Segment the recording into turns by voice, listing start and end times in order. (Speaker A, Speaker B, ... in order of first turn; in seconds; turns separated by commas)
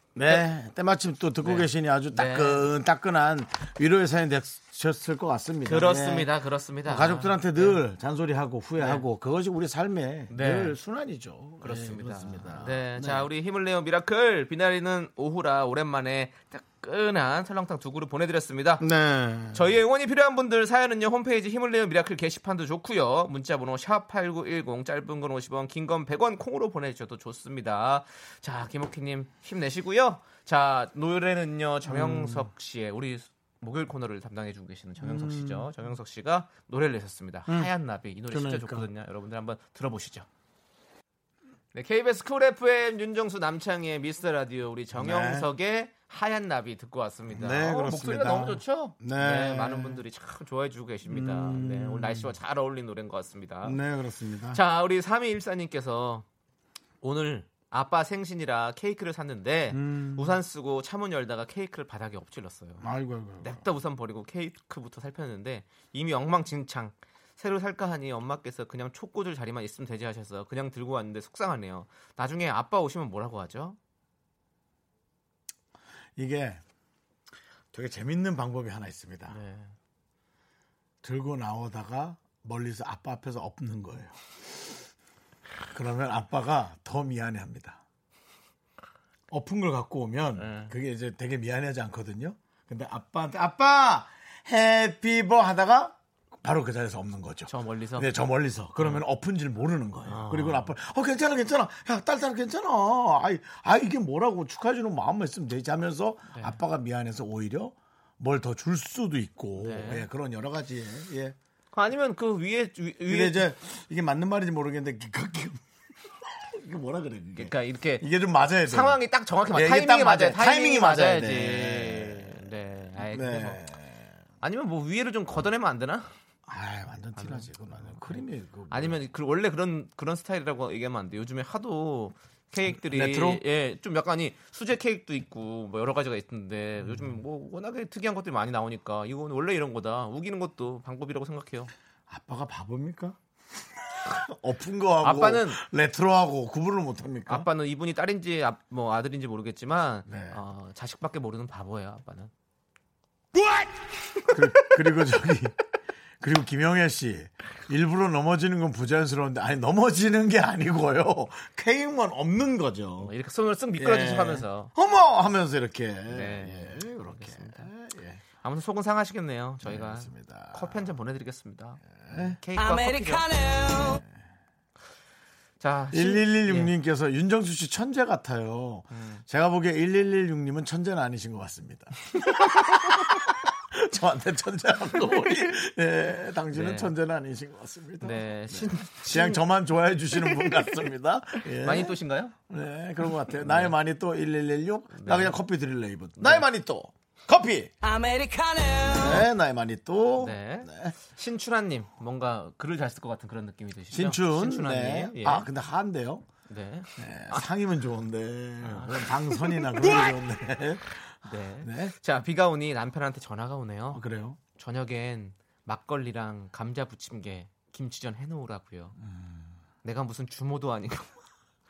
Speaker A: 0.1-6.3, Speaker B: 1.4-2.7, Speaker B: 5.7-7.8, Speaker A: 6.8-13.3, Speaker B: 8.8-9.1, Speaker B: 10.3-10.8, Speaker B: 11.6-18.8, Speaker A: 18.8-19.7, Speaker B: 19.5-40.3, Speaker A: 31.9-32.5, Speaker A: 35.0-35.7, Speaker A: 37.5-37.7, Speaker A: 38.3-38.9, Speaker B: 41.7-53.8, Speaker A: 44.9-45.5, Speaker A: 47.3-50.0, Speaker A: 51.1-52.3, Speaker A: 53.6-54.6, Speaker B: 54.5-56.2, Speaker B: 57.0-62.9, Speaker A: 59.7-60.4, Speaker A: 62.8-63.7, Speaker B: 63.4-73.8, Speaker A: 76.2-76.6, Speaker A: 77.7-79.4, Speaker B: 79.3-79.7, Speaker A: 81.0-84.2, Speaker A: 85.7-87.8, Speaker A: 89.3-111.4, Speaker B: 90.4-90.7, Speaker B: 97.5-98.1, Speaker B: 100.1-100.7, Speaker B: 106.3-106.6, Speaker B: 109.6-110.1, Speaker B: 111.7-113.5, Speaker A: 113.1-115.6, Speaker A: 116.3-122.4, Speaker B: 117.4-118.1, Speaker B: 118.6-123.6, Speaker A: 123.0-124.0, Speaker B: 124.4-126.1, Speaker A: 126.5-129.0, Speaker B: 127.2-141.7, Speaker A: 132.8-133.4, Speaker A: 136.8-137.2, Speaker A: 142.1-143.2, Speaker A: 144.0-147.5, Speaker B: 145.0-145.6, Speaker B: 147.3-152.3, Speaker A: 150.1-150.4, Speaker B: 153.4-153.7, Speaker A: 154.3-155.6, Speaker A: 156.2-163.1, Speaker B: 163.0-164.7, Speaker A: 163.8-168.2, Speaker B: 166.1-167.7, Speaker B: 168.4-173.4, Speaker A: 169.6-170.8, Speaker A: 172.0-172.4, Speaker B: 175.6-176.7, Speaker A: 175.9-192.0, Speaker B: 178.9-179.2, Speaker B: 186.5-186.9, Speaker B: 188.0-189.4, Speaker B: 191.6-192.3, Speaker A: 192.5-197.7, Speaker B: 193.4-193.7, Speaker B: 194.9-195.4, Speaker B: 196.2-196.5, Speaker A: 198.9-201.0, Speaker B: 200.2-205.5, Speaker A: 203.9-206.3, Speaker B: 206.5-207.5, Speaker A: 207.0-211.1, Speaker B: 208.6-210.1, Speaker B: 211.2-214.0, Speaker A: 211.6-211.9, Speaker A: 213.9-214.4, Speaker B: 214.6-219.0, Speaker A: 219.0-219.5, Speaker B: 219.8-221.2